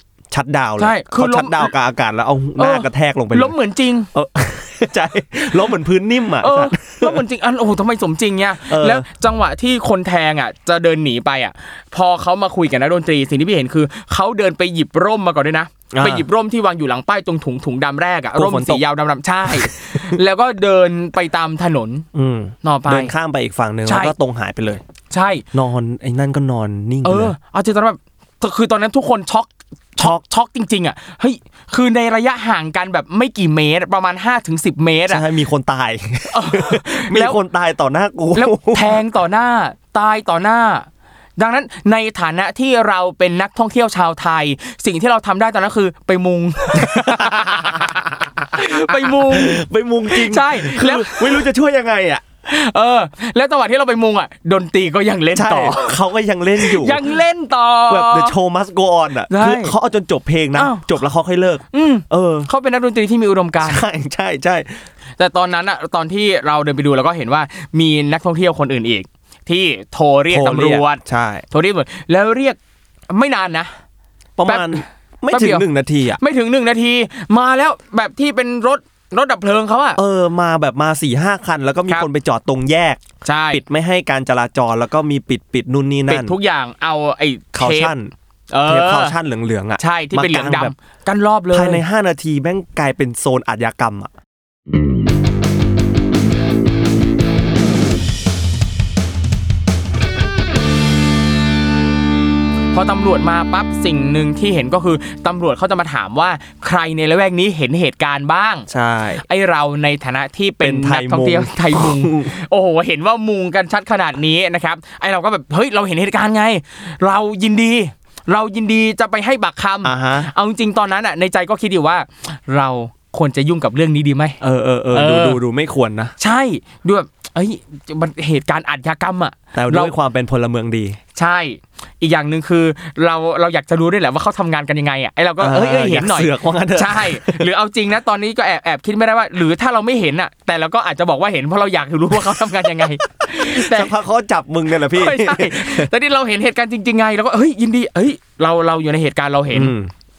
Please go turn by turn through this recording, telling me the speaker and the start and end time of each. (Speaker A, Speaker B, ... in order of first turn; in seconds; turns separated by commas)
Speaker A: 0.3-3.5, Speaker B: 0.8-1.7, Speaker B: 2.6-4.1, Speaker A: 4.1-7.2, Speaker B: 6.4-22.1, Speaker A: 8.7-9.0, Speaker A: 15.9-16.3, Speaker A: 18.3-18.8, Speaker A: 19.5-20.1, Speaker A: 22.1-24.8, Speaker B: 22.6-23.1, Speaker B: 23.9-24.1, Speaker B: 25.1-25.4, Speaker A: 25.5-27.3, Speaker B: 27.0-35.2, Speaker A: 35.1-39.0, Speaker B: 36.3-37.4, Speaker B: 38.3-51.5, Speaker A: 46.8-52.2, Speaker B: 52.5-56.0, Speaker A: 55.3-57.1, Speaker B: 56.6-58.4, Speaker A: 57.9-62.5, Speaker B: 59.3-59.8, Speaker B: 60.5-61.0, Speaker B: 61.7-63.8, Speaker A: 63.6-64.8, Speaker B: 65.2-72.6, Speaker A: 70.3-71.5, Speaker B: 73.1-73.7, Speaker A: 74.4-76.2, Speaker B: 74.5-75.6, Speaker B: 76.2-80.0, Speaker A: 80.0-86.3, Speaker B: 83.2-83.6, Speaker B: 86.1-87.9, Speaker A: 87.5-88.1, Speaker B: 88.5-89.2, Speaker A: 88.7-90.7, Speaker B: 89.8-91.8, Speaker A: 91.5-94.1, Speaker B: 102.7-108.7, Speaker A: 108.7-109.2, Speaker B: 109.2-124.4, Speaker A: 110.6-112.3, Speaker A: 119.8-120.3, Speaker A: 124.4-126.1, Speaker B: 124.9-125.4, Speaker B: 126.2-129.9, Speaker A: 129.5-131.0, Speaker B: 131.2-143.9, Speaker A: 135.4-137.4, Speaker A: 143.4-145.9, Speaker B: 144.9-149.8, Speaker A: 149.5-149.9